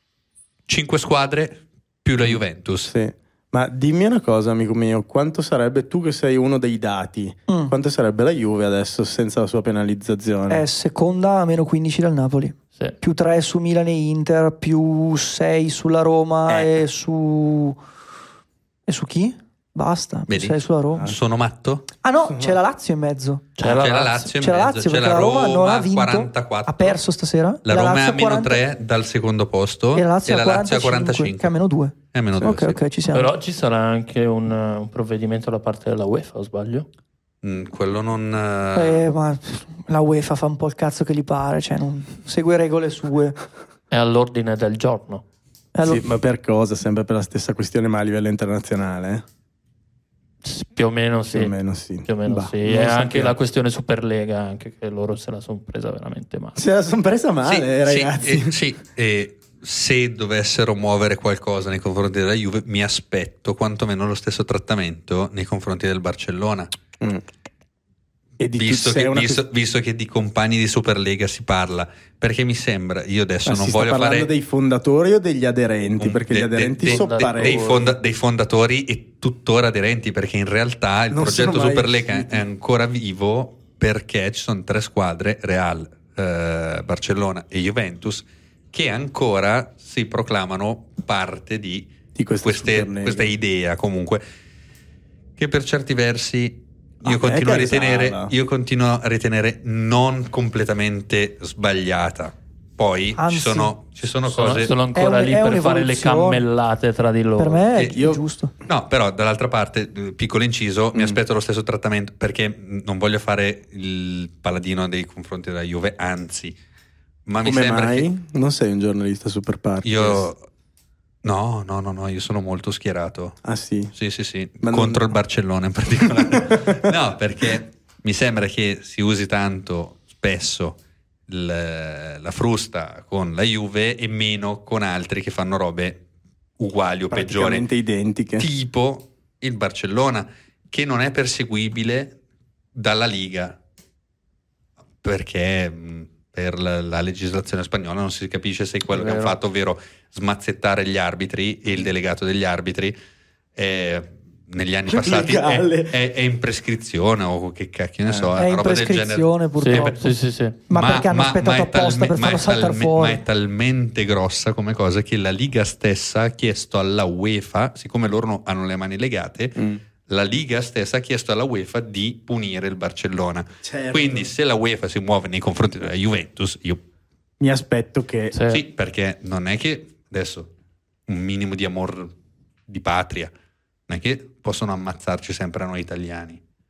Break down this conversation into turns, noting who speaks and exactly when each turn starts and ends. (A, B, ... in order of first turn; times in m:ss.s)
0:00.7-0:02.9 A
0:02.2-0:10.6 B
0:07.5-0:07.7 C
0:10.5-0:17.8 C
0:16.5-0:16.7 B
0:18.9-0:21.1 C
0:20.3-0:21.9 A
0:22.0-0:23.4 C
0:22.3-0:22.6 B
0:23.6-0:24.3 D
0:23.6-0:27.0 A
0:24.3-0:28.6 C
0:27.6-0:31.5 A
0:29.9-0:33.3 C
0:32.1-0:32.8 A
0:33.1-0:36.9 D
0:37.4-0:39.0 A
0:38.7-0:43.4 C
0:43.9-0:45.2 D
0:45.7-0:46.1 C
0:45.8-0:49.2 B
0:50.4-0:56.6 D
0:51.3-0:53.4 B
0:56.6-0:58.5 B
0:57.4-1:06.7 A
1:08.4-1:09.4 B
1:08.5-1:14.3 A
1:13.4-1:17.6 B
1:16.0-1:34.2 A
1:16.8-1:17.9 D
1:21.1-1:22.5 B
1:32.1-1:33.3 B
1:35.4-1:44.7 A
1:37.0-1:38.3 B
1:43.2-1:43.7 C
1:44.2-1:47.6 D
1:44.9-1:46.4 C
1:47.4-1:48.5 C
1:47.9-1:48.2 B
1:48.7-1:56.6 A
1:50.9-1:51.2 B
1:57.2-1:58.1 A
1:57.4-2:00.2 B
1:59.8-2:00.4 A
2:01.2-2:03.4 A
2:03.4-2:03.9 B
2:03.9-2:16.0 A
2:04.6-2:05.2 B
2:06.2-2:06.8 B
2:16.6-2:17.6 A
2:17.1-2:18.5 B
2:18.4-2:22.2 A
2:22.7-2:23.6 A
2:25.0-2:33.0 A
2:28.9-2:29.4 D
2:33.6-2:39.9 A
2:34.9-2:35.9 B
2:38.1-2:38.3 B
2:38.4-2:43.2 C
2:39.6-2:40.6 D
2:40.7-2:56.8 A
2:53.6-2:54.3 B
2:57.4-2:58.3 B
2:58.3-2:58.6 D
2:58.5-3:00.5 A
3:01.1-3:02.1 A
3:02.7-3:03.3 A
3:03.9-3:06.4 A